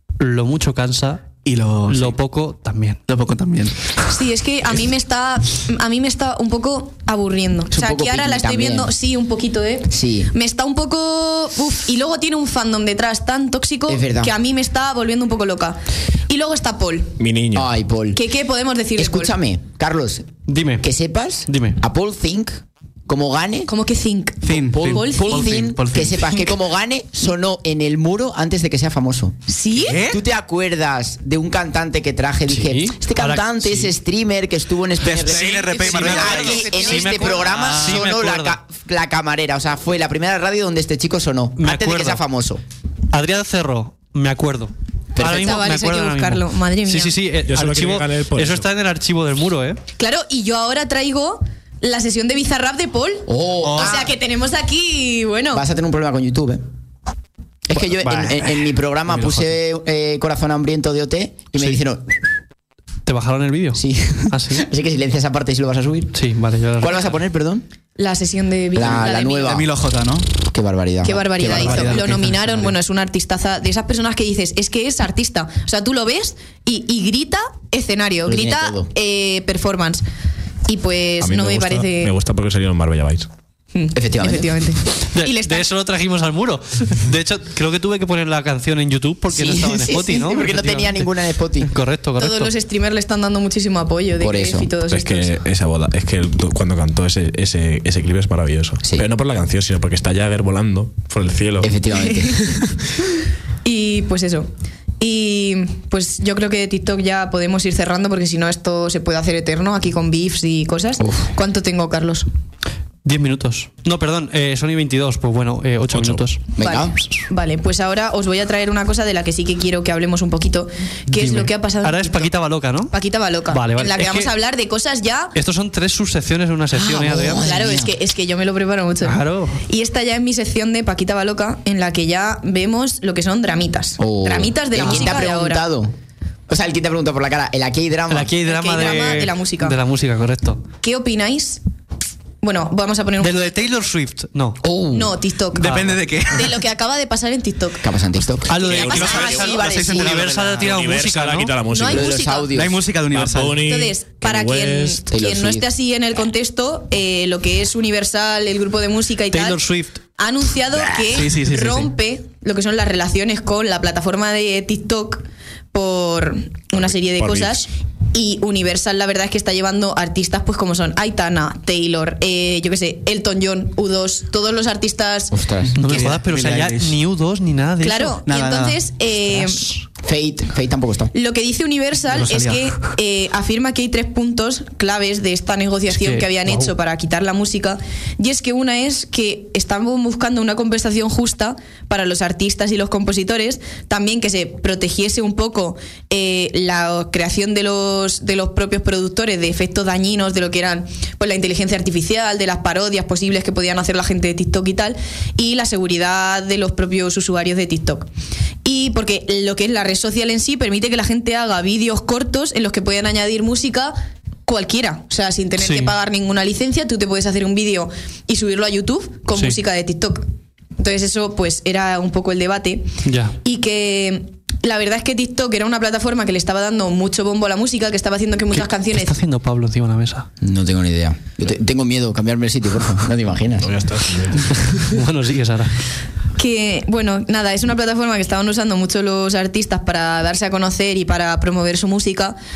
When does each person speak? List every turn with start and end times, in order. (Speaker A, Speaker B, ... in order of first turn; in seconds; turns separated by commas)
Speaker A: 0.2-1.3, Speaker B: 1.4-2.1, Speaker A: 1.9-3.0, Speaker B: 3.1-3.8, Speaker C: 4.1-17.1, Speaker D: 7.7-8.9, Speaker D: 9.9-10.3, Speaker D: 13.9-14.3, Speaker E: 17.2-17.7, Speaker D: 17.5-18.2, Speaker C: 18.1-19.3, Speaker D: 19.0-20.3, Speaker A: 20.5-20.9, Speaker D: 20.8-23.7, Speaker A: 21.5-21.8, Speaker C: 23.7-25.6, Speaker B: 24.4-26.5, Speaker D: 24.8-29.4, Speaker C: 29.5-30.0, Speaker B: 29.8-30.2, Speaker D: 29.9-42.6, Speaker A: 32.5-33.9, Speaker B: 35.0-38.0, Speaker A: 35.3-38.6, Speaker C: 35.8-37.4, Speaker A: 41.6-42.2, Speaker A: 43.1-49.8, Speaker D: 45.1-45.6, Speaker C: 45.2-47.1, Speaker E: 47.5-48.7, Speaker C: 50.0-55.6, Speaker D: 53.3-54.1, Speaker B: 53.6-54.0, Speaker D: 55.5-56.6, Speaker D: 57.7-62.1, Speaker A: 58.0-58.7, Speaker A: 63.1-64.7, Speaker D: 63.7-66.1, Speaker A: 66.1-67.2, Speaker D: 66.8-67.6, Speaker C: 68.0-69.6, Speaker D: 68.7-69.7, Speaker B: 69.4-70.3, Speaker D: 70.5-72.0, Speaker C: 71.0-80.0, Speaker B: 71.5-72.6, Speaker D: 78.3-78.9, Speaker C: 80.7-82.1, Speaker E: 81.2-83.3, Speaker C: 83.7-85.7, Speaker D: 83.9-84.6, Speaker A: 85.1-91.1, Speaker D: 89.3-91.7, Speaker C: 89.9-90.2, Speaker A: 91.6-92.5, Speaker C: 92.2-95.4, Speaker D: 94.2-94.7, Speaker E: 94.9-101.8, Speaker D: 101.6-102.5, Speaker C: 102.1-102.5, Speaker C: 103.6-104.5, Speaker C: 105.0-112.3, Speaker D: 111.0-111.3, Speaker A: 113.0-116.4, Speaker E: 115.9-116.2, Speaker D: 116.6-116.9, Speaker C: 116.6-122.3, Speaker A: 121.1-122.9, Speaker C: 122.9-125.3, Speaker A: 123.5-124.3, Speaker A: 125.3-127.5, Speaker D: 126.7-127.9, Speaker C: 127.4-135.6, Speaker A: 129.0-129.6, Speaker D: 134.0-135.9, Speaker D: 136.5-138.3, Speaker A: 138.1-140.6, Speaker C: 138.4-139.8, Speaker C: 140.8-141.6, Speaker C: 142.4-143.8, Speaker A: 143.2-144.6, Speaker D: 144.6-145.2, Speaker C: 144.9-147.9, Speaker B: 145.5-146.6, Speaker A: 145.6-146.0, Speaker D: 147.8-150.2, Speaker A: 148.5-151.6, Speaker C: 148.5-149.6, Speaker E: 148.7-149.3, Speaker B: 148.8-150.8, Speaker E: 150.6-152.1, Speaker C: 151.7-152.5, Speaker D: 151.9-152.8, Speaker B: 152.5-153.7, Speaker E: 153.1-155.1, Speaker C: 153.7-159.6, Speaker D: 155.1-155.7, Speaker A: 159.3-160.0, Speaker C: 160.2-175.3, Speaker B: 161.1-161.9, Speaker E: 166.7-167.7, Speaker D: 175.3-175.8, Speaker B: 175.7-177.0, Speaker A: 175.8-178.2, Speaker C: 177.8-179.7, Speaker B: 178.3-178.8, Speaker D: 180.0-181.1, Speaker C: 181.1-208.1, Speaker B: 182.1-182.7, Speaker A: 185.9-186.7, Speaker C: 208.6-220.3, Speaker A: 215.6-215.9, Speaker C: 220.8-229.2, Speaker A: 223.1-223.4, Speaker A: 228.5-230.3, Speaker D: 230.4-233.7, Speaker E: 233.6-234.6, Speaker A: 234.5-235.8, Speaker C: 236.4-242.4